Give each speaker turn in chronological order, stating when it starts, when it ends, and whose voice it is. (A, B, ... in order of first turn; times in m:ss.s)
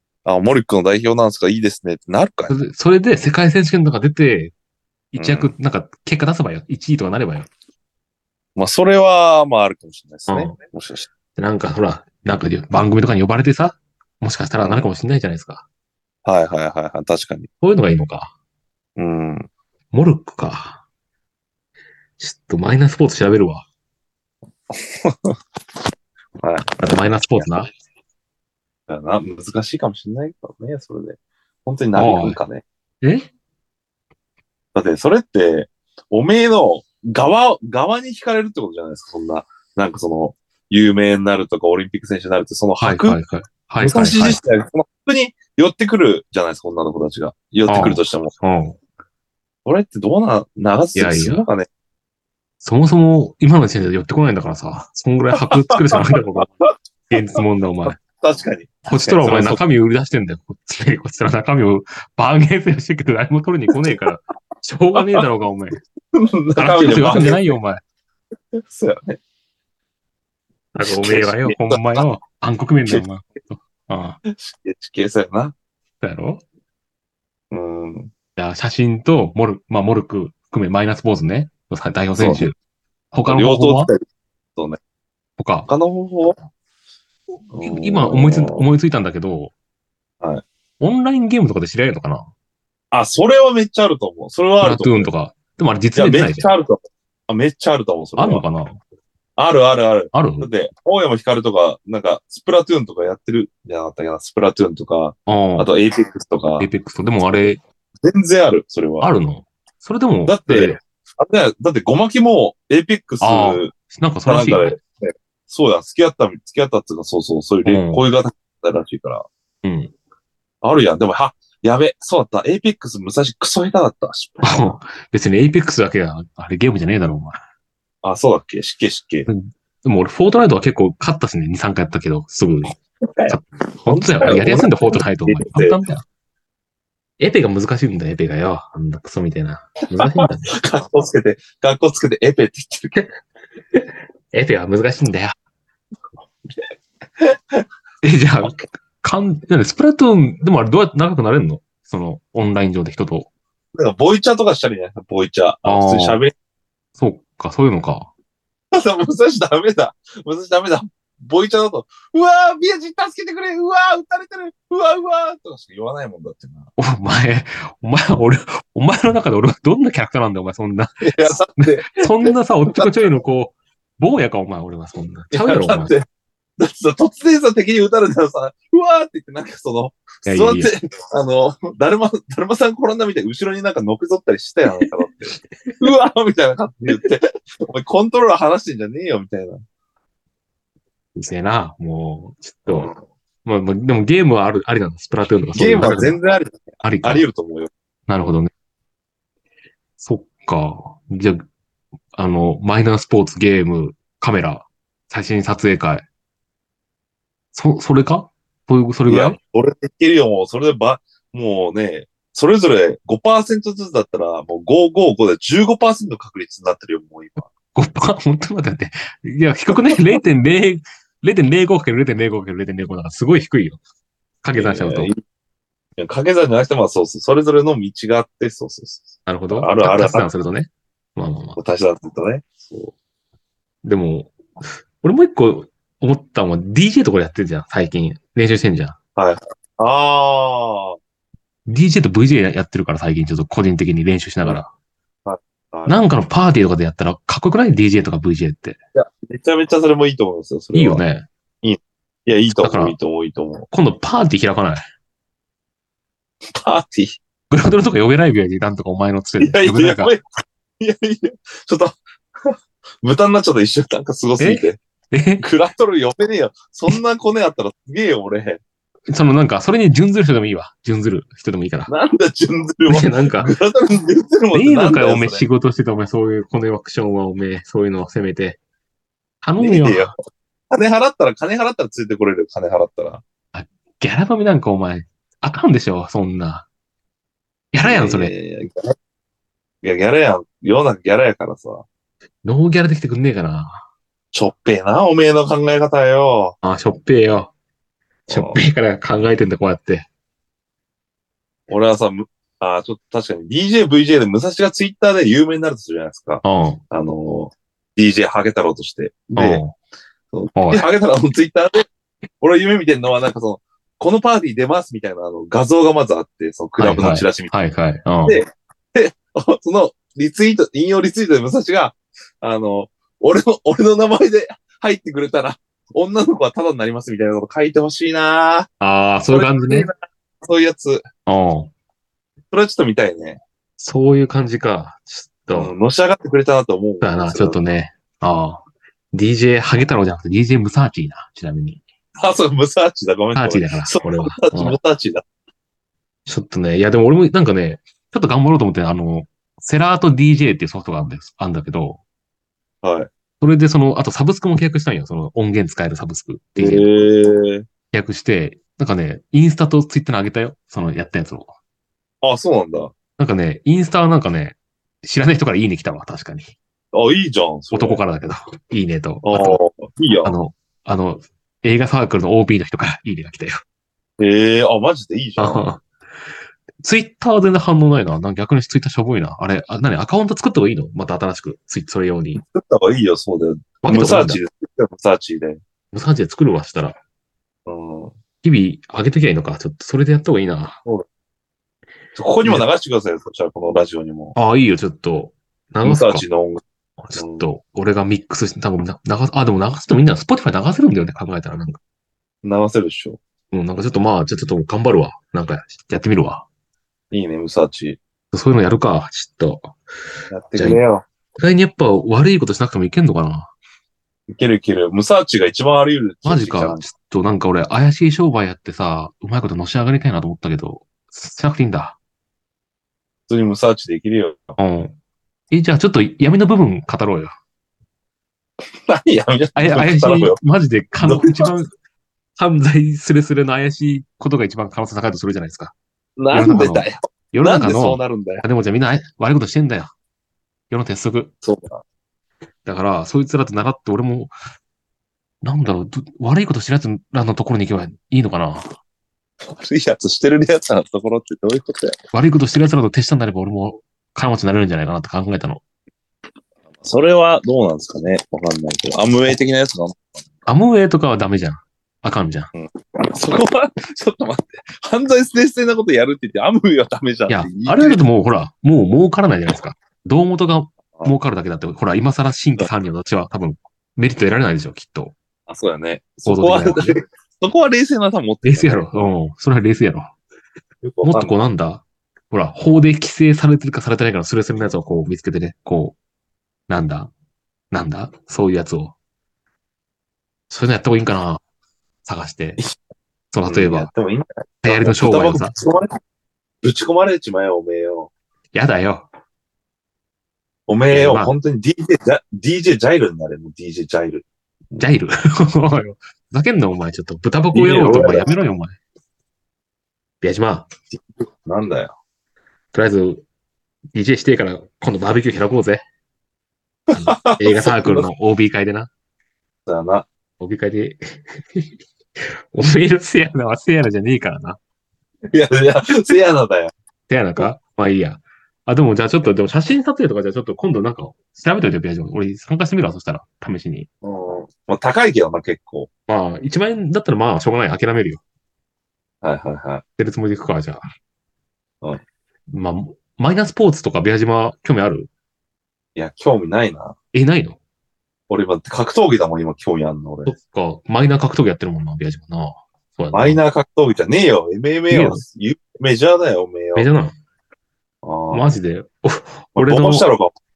0:00.2-0:02.6 A
0:02.5-0:04.5 B
0:05.1-0:07.5 B
0:05.2-0:05.5 A
0:08.6-0:11.1 A
0:10.3-0:10.6 B
0:11.4-0:15.6 B
0:14.6-0:14.9 A
0:16.2-0:17.5 A
0:17.6-0:18.3 B
0:19.0-0:19.5 A
0:19.9-0:20.8 B
0:22.2-0:23.7 B
0:24.7-0:25.4 A
0:26.4-0:26.8 A
0:26.8-0:27.7 B
0:28.9-0:32.6 A
0:32.0-0:32.4 B
0:33.0-0:33.3 B
0:34.8-0:43.2 A
0:42.8-0:44.4 B
0:43.8-0:48.3 A
0:47.7-0:48.8 B
0:49.6-0:51.7 A
0:51.0-0:51.4 B
0:52.6-0:56.5 B
0:55.4-0:56.7 A
0:57.1-0:58.0 B
0:57.9-0:59.6 A
0:58.9-1:05.8 B
1:05.0-1:05.2 A
1:06.1-1:07.5 A
1:06.6-1:07.8 B
1:08.6-1:09.2 A
1:10.7-1:14.2 B
1:10.9-1:12.0 A
1:14.3-1:15.6 A
1:16.0-1:16.4 B
1:17.5-1:18.1 A
1:18.4-1:22.6 B
1:22.2-1:22.5 A
1:23.1-1:23.9 B
1:23.3-1:24.0 A
1:25.4-1:25.7 B
1:25.7-1:26.4 A
1:27.5-1:28.6 A
1:27.6-1:29.5 B
1:30.2-1:30.5 A
1:30.8-1:32.3 B
1:32.9-1:35.1 A
1:34.6-1:36.5 B
1:35.9-1:38.4 A
1:38.2-1:38.8 B
1:39.4-1:46.7 A
1:40.1-1:40.5 B
1:45.3-1:45.7 B
1:46.6-1:47.6 B
1:48.0-1:49.1 A
1:49.0-1:50.8 B
1:50.3-1:53.7 A
1:53.2-1:54.8 B
1:54.2-1:59.3 A
1:57.6-1:58.0 B
1:59.6-1:59.9 B
2:00.6-2:04.7 A
2:04.4-2:07.4 B
2:08.0-2:09.3 A
2:09.3-2:12.8 B
2:13.1-2:15.8 A
2:13.3-2:16.0 B
2:17.2-2:20.5 B
2:20.0-2:23.0 A
2:23.7-2:25.4 B
2:27.2-2:27.6 A
2:28.0-2:33.3 B
2:33.7-2:36.3 A
2:35.6-2:36.2 B
2:37.0-2:38.1 B
2:38.7-2:46.7 A
2:46.8-2:55.9 B
2:51.0-2:52.9 A
2:55.3-2:56.0 A
2:56.6-3:09.6 A
3:00.3-3:00.7 B
3:11.2-3:12.9 B
3:13.4-3:16.2 B
3:15.6-3:17.7 A
3:16.8-3:17.2 B
3:18.1-3:18.5 B
3:20.0-3:21.4 B
3:22.1-3:26.1 B
3:27.5-3:29.4 B
3:29.1-3:37.5 A
3:37.8-3:43.8 B
3:44.4-3:45.1 B
3:44.6-3:45.2 A
3:46.0-3:50.3 A
3:49.3-3:51.6 B
3:51.6-3:52.9 A
3:53.8-3:59.0 B
3:59.2-4:01.0 A
4:01.7-4:04.7 B
4:05.3-4:06.0 A
4:05.9-4:08.8 B
4:09.0-4:11.0 A
4:10.7-4:11.3 B
4:11.6-4:13.7 A
4:12.6-4:13.0 B
4:13.7-4:14.8 B
4:16.6-4:17.2 A
4:17.5-4:20.2 B
4:19.4-4:20.2 A
4:20.8-4:24.8 A
4:24.4-4:25.4 B
4:25.4-4:28.6 A
4:29.1-4:31.9 B
4:31.9-4:35.4 A
4:32.9-4:33.5 B
4:34.5-4:38.6 B
4:39.4-4:40.1 B
4:39.6-4:40.1 A
4:40.7-4:43.2 A
4:43.5-4:46.7 B
4:47.7-4:48.3 B
4:47.8-4:48.9 A
4:49.8-4:51.8 A
4:52.4-4:53.8 B
4:54.3-4:56.6 A
4:56.6-4:57.5 B
4:58.3-4:58.6 A
4:58.3-5:00.1 B
5:01.7-5:09.6 A
5:06.4-5:06.8 B
5:09.4-5:09.7 B
5:10.3-5:11.9 A
5:10.6-5:10.9 B
5:12.4-5:17.5 A
5:16.8-5:18.4 B
5:18.3-5:28.7 A
5:28.8-5:29.9 B
5:29.3-5:31.0 A
5:31.3-5:31.7 B
5:32.5-5:33.4 A
5:33.8-5:35.7 B
5:35.5-5:37.6 A
5:37.0-5:41.8 B
5:42.2-5:45.2 A
5:43.4-5:44.8 B
5:46.3-5:52.0 B
5:52.8-5:53.1 A
5:53.4-5:57.0 B
5:56.6-5:57.7 A
5:57.9-6:01.5 B
6:02.2-6:02.9 A
6:03.2-6:06.5 B
6:06.9-6:08.0 A
6:07.7-6:09.6 B
6:09.2-6:10.4 A
6:10.2-6:13.6 B
6:14.2-6:15.6 A
6:15.4-6:15.8 B
6:16.8-6:22.4 B
6:22.4-6:25.6 A
6:23.8-6:24.4 B
6:25.9-6:27.0 B
6:27.7-6:28.2 A
6:28.4-6:30.8 B
6:32.2-6:34.4 A
6:34.4-6:36.2 B
6:35.8-6:36.6 A
6:37.0-6:41.8 B
6:37.1-6:37.5 A
6:42.4-6:43.2 A
6:43.5-6:46.5 B
6:47.1-6:48.0 A
6:48.3-6:49.7 B
6:50.3-6:51.1 A
6:51.4-6:53.5 B
6:54.3-6:56.9 A
6:56.2-7:02.0 B
7:03.3-7:04.6 A
7:04.6-7:05.0 B
7:05.5-7:07.3 B
7:08.9-7:10.4 A
7:09.6-7:11.7 B
7:11.0-7:11.6 A
7:12.4-7:15.7 B
7:16.2-7:18.4 A
7:16.3-7:19.9 B
7:20.7-7:21.3 B
7:21.4-7:21.8 A
7:22.7-7:24.3 B
7:25.4-7:28.8 B
7:29.5-7:32.0 A
7:32.1-7:35.6 B
7:36.8-7:40.1 A
7:40.5-7:42.5 B
7:42.6-7:48.0 A
7:47.3-7:55.2 B
7:55.5-7:59.1 A
7:56.3-7:57.0 B
7:58.4-8:00.1 B
8:00.8-8:01.3 A
8:01.0-8:06.0 B
8:06.7-8:07.1 B
8:07.7-8:09.0 B
8:10.5-8:11.4 B
8:12.0-8:12.6 B
8:13.3-8:13.9 B
8:13.5-8:15.9 A
8:14.6-8:15.5 B
8:16.6-8:18.1 A
8:18.5-8:19.1 B
8:20.7-8:24.8 A
8:20.9-8:21.3 B
8:24.8-8:28.8 B
8:27.5-8:28.3 A
8:30.2-8:30.7 B
8:30.9-8:32.0 A
8:32.7-8:33.2 B
8:33.9-8:35.8 B
8:36.9-8:38.1 A
8:36.9-8:38.9 B
8:39.7-8:40.1 A
8:40.4-8:44.6 B
8:45.3-8:46.7 A
8:47.1-8:53.9 B
8:54.0-8:55.9 A
8:56.1-8:58.2 B
8:59.2-8:59.8 A
9:00.0-9:00.8 B
9:02.5-9:05.1 B
9:06.0-9:07.0 A
9:07.1-9:07.6 B
9:08.3-9:10.3 A
9:10.3-9:13.4 B
9:13.1-9:16.9 A
9:14.9-9:15.2 B
9:16.8-9:17.1 B
9:18.0-9:18.5 A
9:18.3-9:20.1 B
9:19.6-9:20.3 A